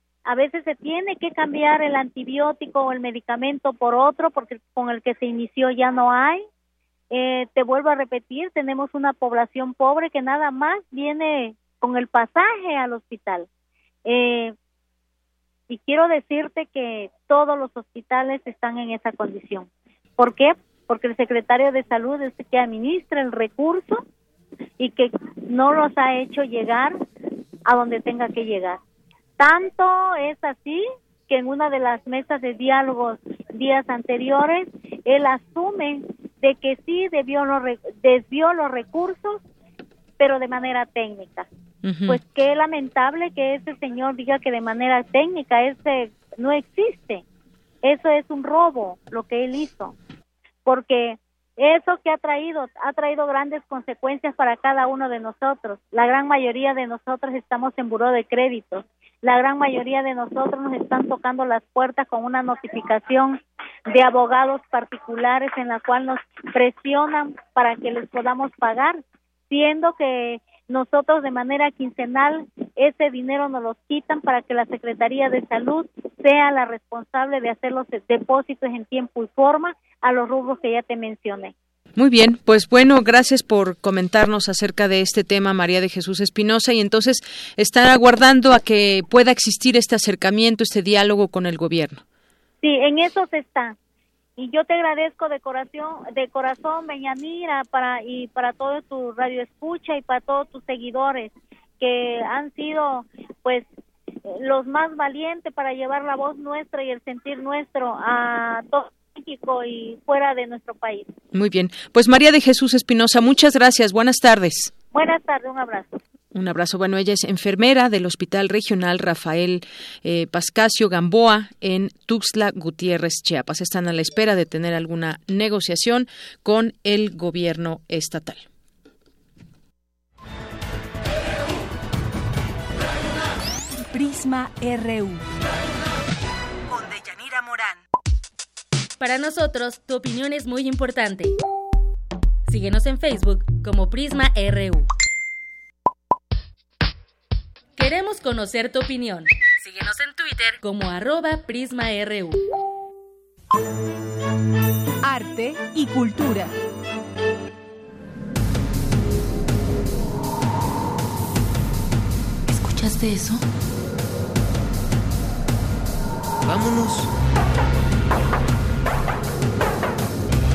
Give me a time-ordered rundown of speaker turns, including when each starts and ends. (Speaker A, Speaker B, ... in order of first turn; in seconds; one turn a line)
Speaker A: 0.2-6.4
Speaker A: 7.1-13.5
Speaker A: 14.1-14.6
Speaker A: 15.7-24.0
Speaker A: 24.8-27.0
Speaker A: 27.7-28.8
Speaker A: 29.4-39.4
Speaker A: 40.2-41.5
Speaker B: 41.8-42.2
Speaker A: 42.1-47.2
Speaker A: 47.8-50.0
Speaker A: 50.7-81.5
Speaker B: 82.0-92.0
Speaker A: 92.6-93.8
Speaker A: 94.4-103.7
Speaker A: 104.3-111.1
Speaker B: 111.3-114.7
Speaker A: 114.9-115.9
Speaker B: 116.3-128.5
Speaker C: 133.9-135.2
Speaker D: 136.7-137.8
Speaker E: 139.0-141.3
Speaker E: 142.5-144.9
Speaker E: 147.8-152.4
Speaker C: 155.0-156.5
Speaker D: 162.5-163.3